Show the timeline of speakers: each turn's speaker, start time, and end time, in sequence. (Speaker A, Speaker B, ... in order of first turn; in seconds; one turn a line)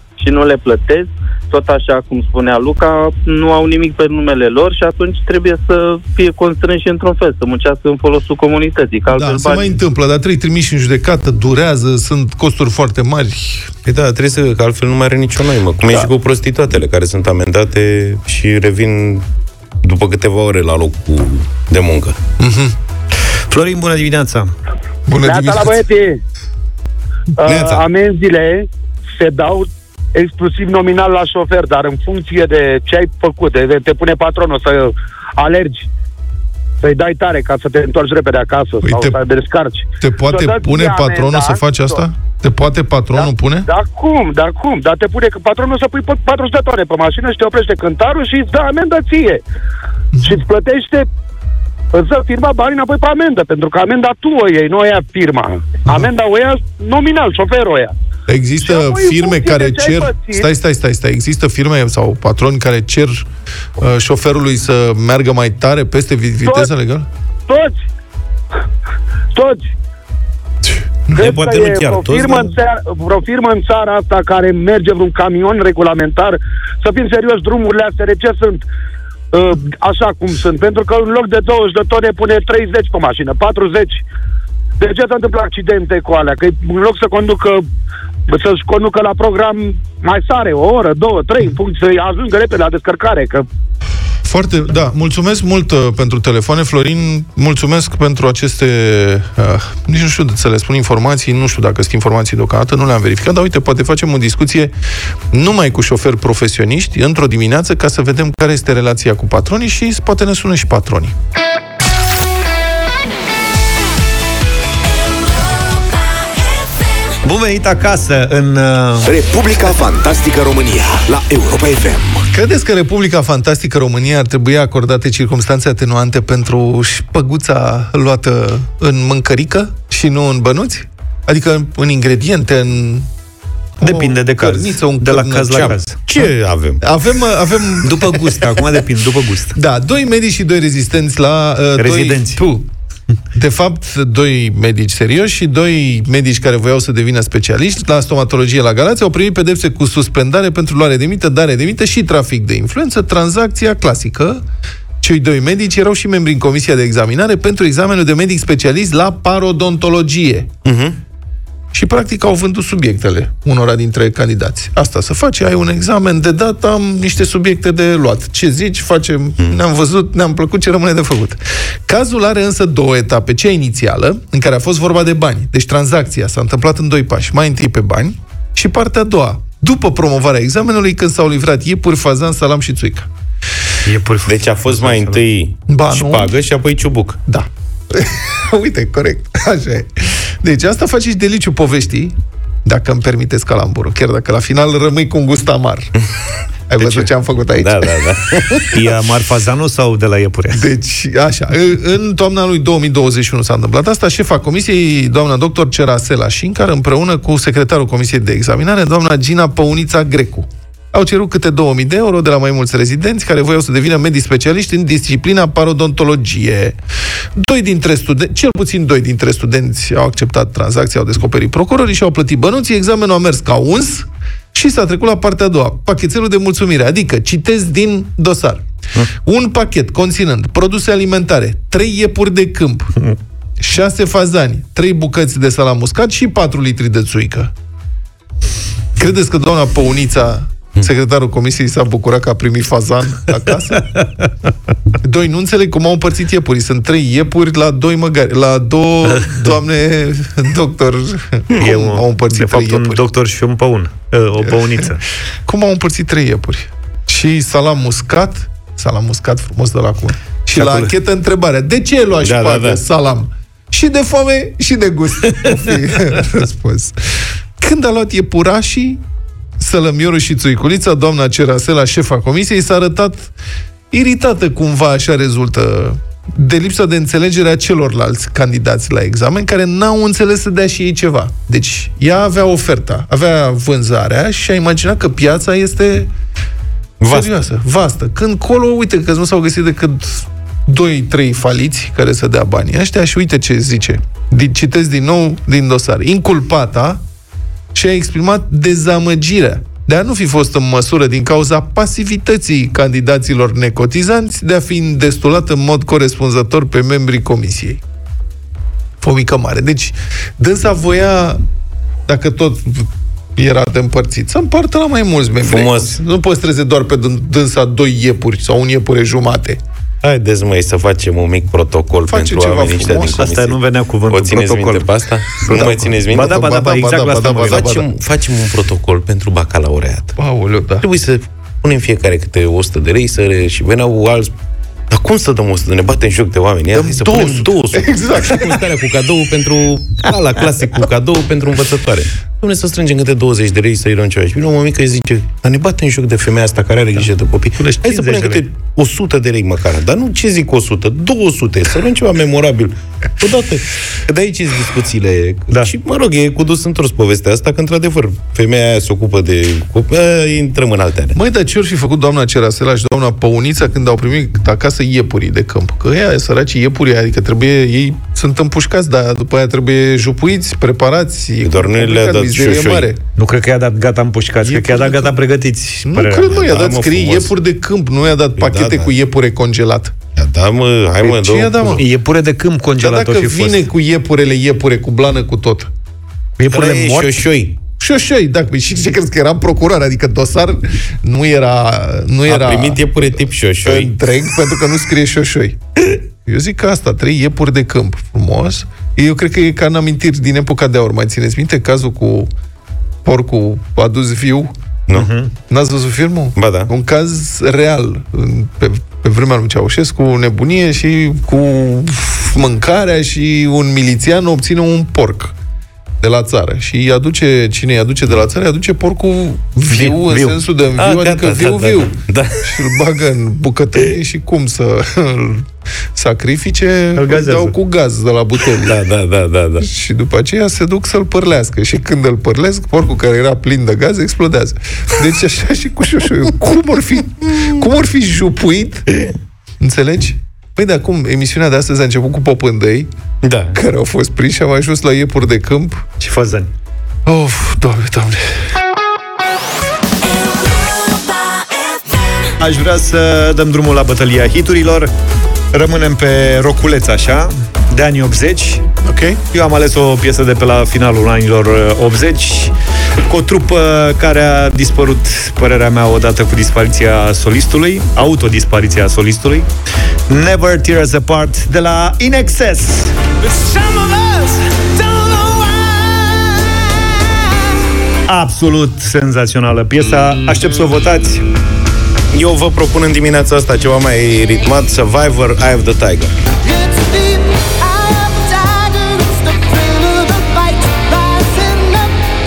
Speaker A: 0.2-9.8
Speaker B: 9.1-13.7
Speaker C: 13.8-19.2
Speaker C: 19.8-22.1
Speaker B: 22.4-22.8
Speaker D: 23.5-24.5
Speaker B: 25.1-25.8
Speaker E: 25.2-26.2
Speaker E: 27.4-35.9
Speaker C: 27.5-27.8
Speaker E: 36.8-42.0
Speaker B: 38.8-39.2
Speaker B: 40.0-43.7
Speaker E: 43.1-49.4
Speaker B: 50.1-50.4
Speaker E: 50.2-51.1
Speaker E: 51.9-57.9
Speaker B: 58.3-67.1
Speaker E: 58.6-60.5
Speaker E: 66.5-66.7
Speaker E: 67.5-67.8
Speaker E: 69.3-69.7
Speaker E: 71.1-78.6
Speaker C: 71.2-72.5
Speaker E: 79.3-84.0
Speaker E: 84.8-87.6
Speaker E: 88.3-93.5
Speaker B: 94.2-104.7
Speaker B: 105.3-111.1
Speaker D: 117.2-119.1
Speaker F: 119.0-122.2
Speaker B: 122.3-133.1
Speaker B: 133.8-138.1
Speaker D: 133.8-136.0
Speaker C: 135.6-136.8
Speaker D: 137.8-139.6
Speaker B: 139.6-142.7
Speaker D: 141.8-142.4
Speaker B: 143.3-154.4
Speaker B: 155.0-160.6
Speaker C: 160.6-160.9
Speaker B: 161.7-183.1
Speaker D: 183.8-185.2
Speaker C: 184.3-187.2
Speaker B: 185.7-186.3
Speaker B: 187.3-195.9
Speaker B: 196.7-198.0
Speaker C: 197.6-198.7
Speaker D: 198.7-200.6
Speaker B: 200.5-216.8
Speaker B: 217.4-228.6
Speaker B: 229.2-232.9
Speaker B: 233.6-237.5
Speaker B: 239.0-243.9
Speaker B: 245.0-253.0
Speaker D: 251.6-255.0
Speaker B: 254.4-254.8
Speaker B: 255.4-267.1
Speaker D: 260.6-260.9
Speaker C: 262.2-262.8
Speaker B: 267.6-269.0
Speaker B: 269.6-273.3
Speaker B: 273.9-286.1
Speaker C: 287.0-287.3
Speaker B: 287.1-297.0
Speaker B: 297.7-307.8
Speaker B: 309.0-311.4
Speaker B: 312.1-319.6
Speaker C: 315.4-315.9
Speaker C: 320.0-323.6
Speaker B: 322.1-323.2
Speaker D: 323.2-327.7
Speaker C: 324.1-326.4
Speaker B: 325.5-327.9
Speaker C: 327.5-330.1
Speaker B: 330.2-330.9
Speaker C: 330.8-334.3
Speaker C: 334.9-361.2
Speaker B: 336.7-338.6
Speaker D: 347.6-348.4
Speaker B: 361.1-373.0
Speaker C: 371.4-372.9
Speaker D: 373.1-376.4
Speaker B: 374.4-375.2
Speaker B: 375.9-380.0
Speaker C: 376.3-377.3
Speaker C: 378.4-378.9
Speaker C: 380.1-381.8
Speaker B: 381.0-381.8
Speaker D: 381.8-383.7
Speaker B: 382.8-385.7
Speaker D: 386.4-387.2
Speaker C: 386.5-387.6
Speaker B: 387.8-402.3
Speaker C: 392.3-393.9
Speaker B: 403.1-404.5
Speaker D: 404.9-405.3
Speaker B: 405.5-415.4
Speaker C: 406.4-406.7
Speaker B: 416.0-428.8
Speaker D: 419.9-420.4
Speaker C: 420.8-422.6
Speaker D: 426.9-427.6
Speaker C: 428.6-429.7
Speaker B: 429.6-438.9
Speaker B: 439.6-442.9
Speaker C: 443.2-443.6
Speaker B: 443.5-445.9
Speaker D: 446.0-446.5
Speaker B: 447.1-448.3
Speaker D: 452.4-454.9
Speaker D: 455.5-458.6
Speaker B: 458.9-459.2
Speaker D: 459.3-462.5
Speaker D: 463.1-469.5
Speaker D: 470.1-474.2
Speaker D: 478.1-481.3
Speaker C: 482.1-486.1